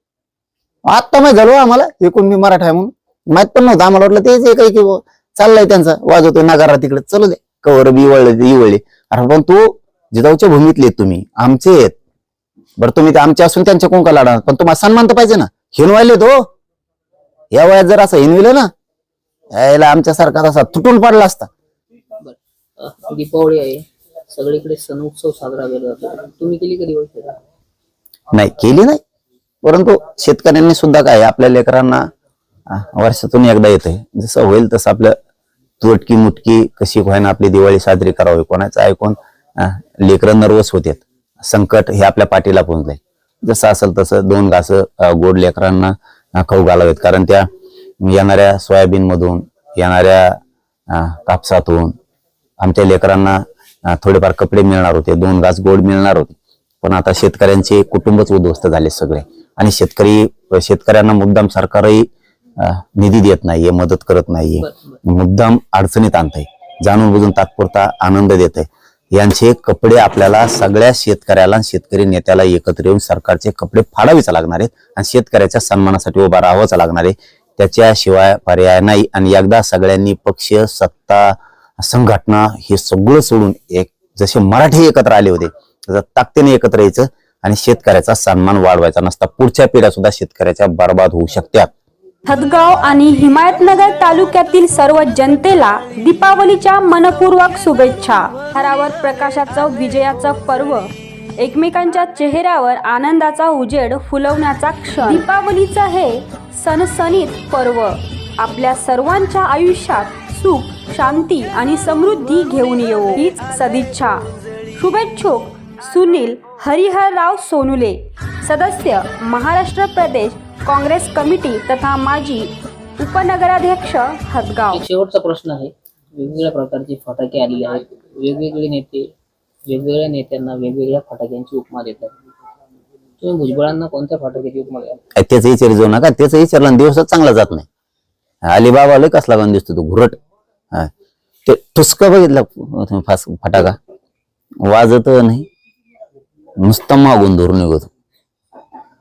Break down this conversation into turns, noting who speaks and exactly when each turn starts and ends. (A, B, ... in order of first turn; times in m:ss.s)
0:00.9-0:12.0 A
0:12.8-0:16.5 A
0:17.5-0:18.7 A
0:19.5-0:21.5 A
0:22.2-0:27.4 B
0:28.3-0:29.0 A
0:29.6-0:32.0 A
0:32.7-0:35.1 A
0:35.8-0:47.4 A
0:48.0-0:50.4 A
0:50.9-0:52.0 A
0:52.6-1:02.0 A
1:02.6-1:31.7 A
1:04.6-1:05.0 B
1:32.3-1:54.2 C
1:54.7-2:04.8 C
2:04.7-2:09.1 B
2:09.7-2:12.1 B
2:13.2-2:15.0 B
2:15.1-2:17.6 A
2:18.4-2:20.2 A
2:21.4-2:23.8 A
2:24.6-2:25.5 A
2:26.6-2:27.9 A